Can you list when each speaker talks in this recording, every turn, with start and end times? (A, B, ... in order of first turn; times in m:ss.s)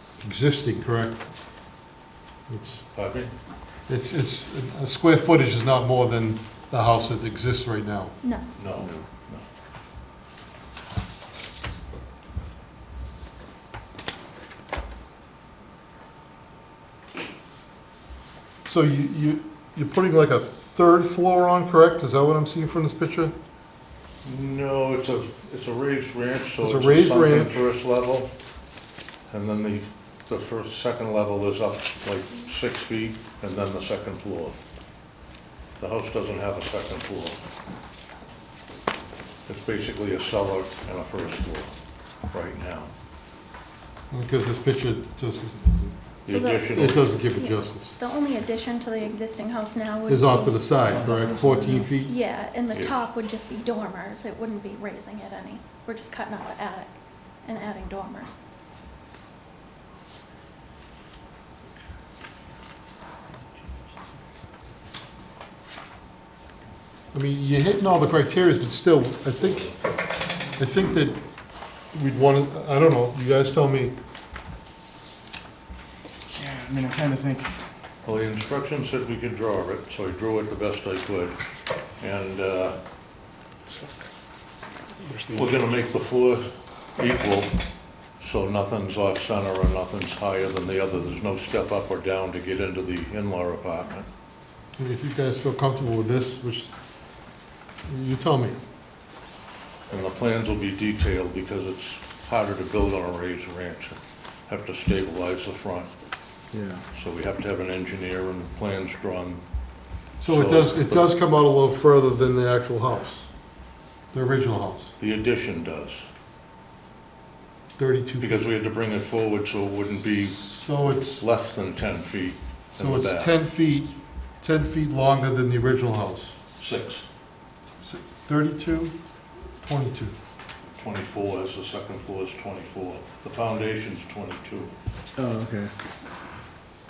0:00.2-0:01.3 A
0:02.5-0:02.9 A
0:02.9-0:03.3 B
0:03.9-0:08.2 A
0:08.6-0:09.4 B
0:18.6-0:23.3 A
0:24.2-0:28.3 B
0:26.6-0:27.7 A
0:29.3-0:34.6 B
0:35.8-0:37.4 B
0:39.5-0:41.8 B
0:42.3-0:42.9 B
0:44.1-0:46.0 A
0:46.2-0:47.1 B
0:46.3-0:46.7 C
0:46.7-0:48.0 A
0:47.4-0:56.9 C
0:50.1-0:52.2 A
0:52.7-0:53.0 B
0:57.5-0:58.4 C
1:07.1-1:10.0 A
1:10.5-1:11.2 A
1:11.9-1:13.9 A
1:16.3-1:17.6 D
1:18.0-1:21.4 B
1:22.0-1:22.8 B
1:25.3-1:27.5 B
1:28.2-1:34.1 B
1:34.8-1:36.8 A
1:37.9-1:38.6 A
1:39.9-1:45.9 B
1:46.5-1:46.8 D
1:46.9-1:49.4 B
1:50.2-1:53.3 A
1:50.3-1:51.1 B
1:54.1-1:55.0 A
1:55.0-1:56.1 B
1:57.8-1:58.5 A
1:58.2-2:03.3 B
2:00.2-2:01.3 A
2:02.8-2:06.4 A
2:06.6-2:07.1 B
2:07.8-2:09.0 A
2:09.6-2:10.2 A
2:10.8-2:14.7 B
2:15.2-2:15.7 D